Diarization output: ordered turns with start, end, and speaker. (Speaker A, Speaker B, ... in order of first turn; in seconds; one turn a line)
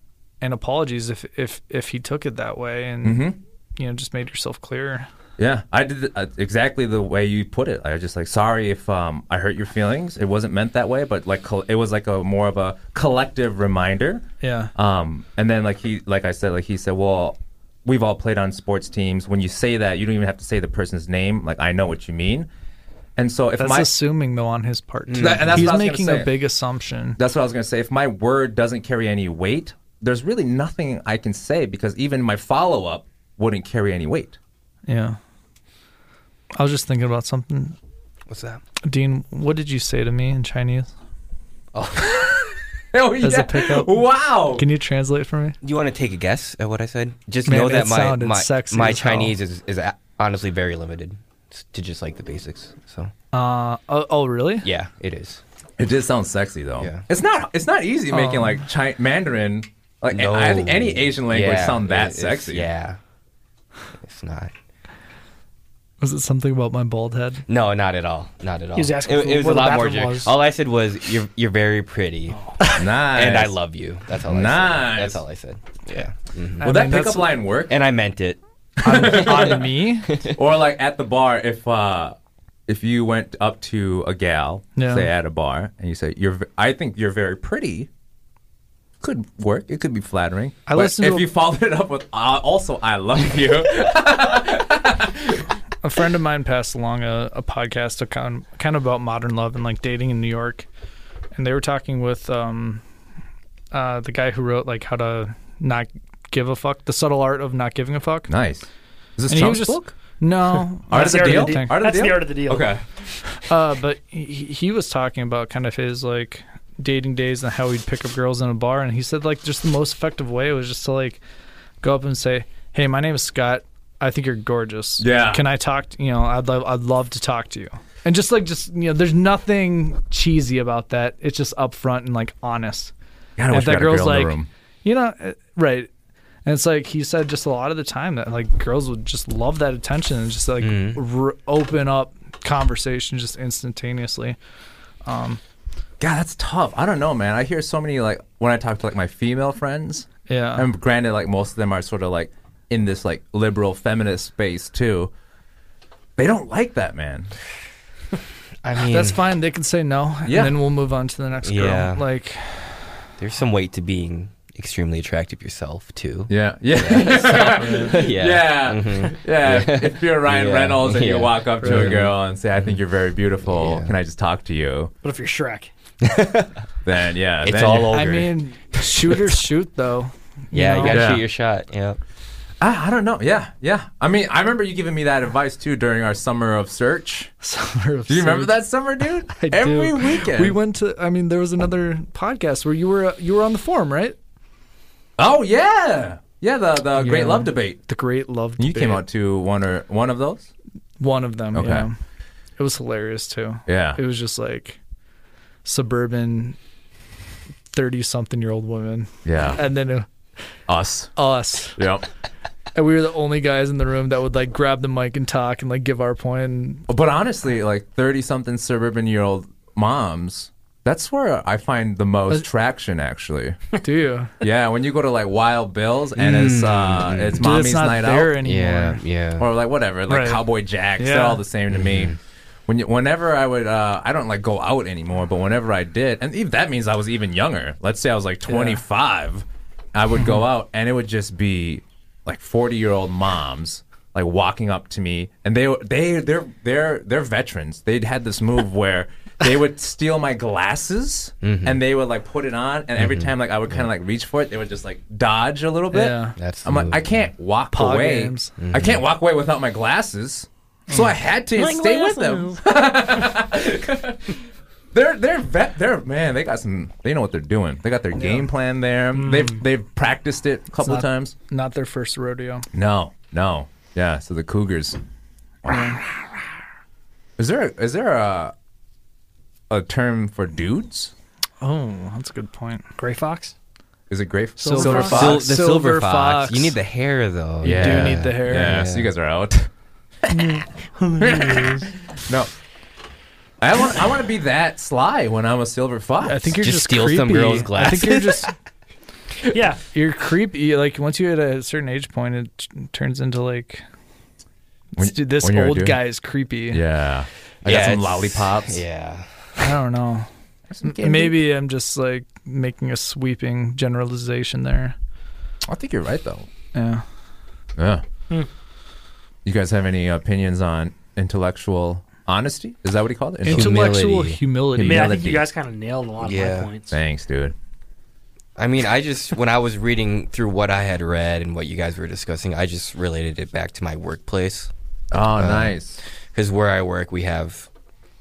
Speaker A: 0.4-5.1
Speaker B: 3.0-3.4
Speaker B: 5.4-14.2
Speaker A: 14.4-14.7
Speaker B: 14.8-22.5
Speaker B: 23.2-23.9
Speaker A: 23.6-27.2
Speaker C: 25.1-25.7
Speaker B: 25.2-26.3
Speaker B: 27.2-34.4
Speaker A: 34.9-35.2
Speaker A: 36.5-37.8
Speaker C: 38.3-38.6
Speaker A: 38.8-40.9
Speaker C: 41.7-42.2
Speaker B: 42.0-44.7
Speaker A: 43.2-45.6
Speaker C: 45.6-53.1
Speaker A: 47.5-49.3
Speaker A: 53.3-54.7
Speaker C: 54.6-55.4
Speaker B: 55.8-62.7
Speaker C: 56.8-57.0
Speaker A: 58.1-58.6
Speaker C: 60.1-63.0
Speaker C: 64.0-64.5
Speaker A: 66.0-67.4
Speaker C: 67.5-76.7
Speaker D: 68.8-70.3
Speaker B: 72.8-73.6
Speaker B: 74.2-75.2
Speaker A: 76.6-77.3
Speaker B: 76.6-77.8
Speaker C: 77.7-78.4
Speaker B: 78.8-79.7
Speaker A: 78.8-80.2
Speaker C: 79.0-79.6
Speaker C: 80.1-80.3
Speaker B: 80.2-82.2
Speaker B: 82.7-87.9
Speaker A: 84.8-85.1
Speaker B: 89.0-95.5
Speaker A: 90.7-91.3
Speaker A: 95.8-100.7
Speaker A: 101.3-102.8
Speaker A: 103.7-108.3
Speaker B: 108.3-110.0
Speaker A: 109.3-111.8
Speaker B: 110.9-112.8
Speaker D: 110.9-112.7
Speaker A: 113.3-121.2
Speaker A: 121.8-132.9
Speaker B: 125.0-125.4
Speaker B: 133.4-134.5
Speaker A: 133.5-135.9
Speaker A: 136.4-144.4
Speaker C: 140.6-141.0
Speaker A: 145.1-145.4
Speaker B: 146.0-155.1
Speaker A: 150.3-150.7
Speaker B: 156.2-157.3
Speaker C: 158.6-159.2
Speaker A: 158.8-163.1
Speaker B: 160.3-160.6
Speaker C: 161.4-162.1
Speaker C: 163.2-172.8
Speaker B: 166.3-174.9
Speaker A: 167.5-168.0
Speaker A: 171.6-171.9
Speaker C: 173.4-173.9
Speaker D: 175.0-175.7
Speaker C: 176.0-176.6
Speaker B: 176.8-178.3
Speaker C: 177.4-179.3
Speaker A: 177.9-181.1
Speaker C: 180.5-182.0
Speaker B: 180.8-181.2
Speaker B: 182.6-187.3
Speaker A: 187.4-188.5
Speaker B: 188.1-190.6
Speaker A: 189.4-194.2
Speaker B: 195.2-197.8
Speaker A: 197.0-199.0
Speaker B: 198.6-200.5
Speaker A: 201.0-202.0
Speaker B: 201.5-201.9
Speaker A: 202.6-204.8
Speaker B: 203.7-204.0
Speaker A: 205.7-206.6
Speaker A: 207.7-210.1
Speaker B: 209.2-209.6
Speaker B: 210.7-211.1
Speaker A: 211.2-211.8
Speaker B: 211.8-212.1
Speaker A: 212.8-216.8
Speaker B: 216.9-223.8
Speaker A: 223.8-224.3
Speaker B: 224.4-228.3
Speaker C: 226.2-227.6
Speaker A: 227.4-229.0
Speaker C: 228.4-229.5
Speaker B: 229.4-264.4
Speaker A: 230.1-230.4
Speaker A: 231.0-231.4
Speaker C: 231.7-232.2
Speaker A: 238.5-238.8
Speaker A: 240.2-240.4
Speaker C: 251.4-251.8
Speaker C: 253.0-253.3
Speaker A: 255.9-256.4
Speaker C: 256.4-257.3
Speaker A: 257.7-258.5
Speaker C: 258.6-259.0
Speaker D: 261.6-262.6
Speaker B: 264.9-271.4
Speaker A: 268.1-268.4
Speaker D: 269.1-269.6
Speaker A: 270.8-272.7
Speaker B: 272.7-275.0
Speaker A: 275.7-276.0
Speaker B: 277.4-278.5
Speaker B: 279.7-281.1
Speaker A: 281.6-282.9
Speaker D: 283.0-283.6
Speaker B: 284.1-285.4
Speaker D: 284.6-285.2
Speaker A: 284.7-286.8
Speaker C: 284.9-289.1
Speaker A: 287.6-288.8
Speaker B: 287.6-289.7
Speaker B: 290.2-290.6
Speaker D: 290.3-291.9
Speaker B: 291.2-292.5
Speaker B: 293.6-296.5
Speaker A: 296.2-298.5
Speaker C: 296.6-298.5
Speaker D: 299.5-299.8
Speaker A: 299.8-303.8
Speaker A: 305.0-306.8
Speaker B: 305.0-306.0
Speaker B: 306.7-308.8
Speaker C: 307.6-309.8
Speaker A: 309.6-310.3
Speaker B: 310.7-311.4
Speaker A: 310.8-315.0
Speaker B: 315.7-316.5
Speaker A: 316.7-317.1
Speaker B: 317.8-318.0
Speaker B: 319.4-323.9
Speaker A: 323.4-325.2
Speaker C: 323.5-324.4
Speaker B: 324.8-325.4
Speaker D: 324.8-327.0
Speaker C: 326.2-326.7
Speaker B: 326.9-327.6
Speaker C: 328.6-334.7
Speaker B: 335.1-336.0
Speaker C: 335.3-335.8
Speaker C: 336.3-337.7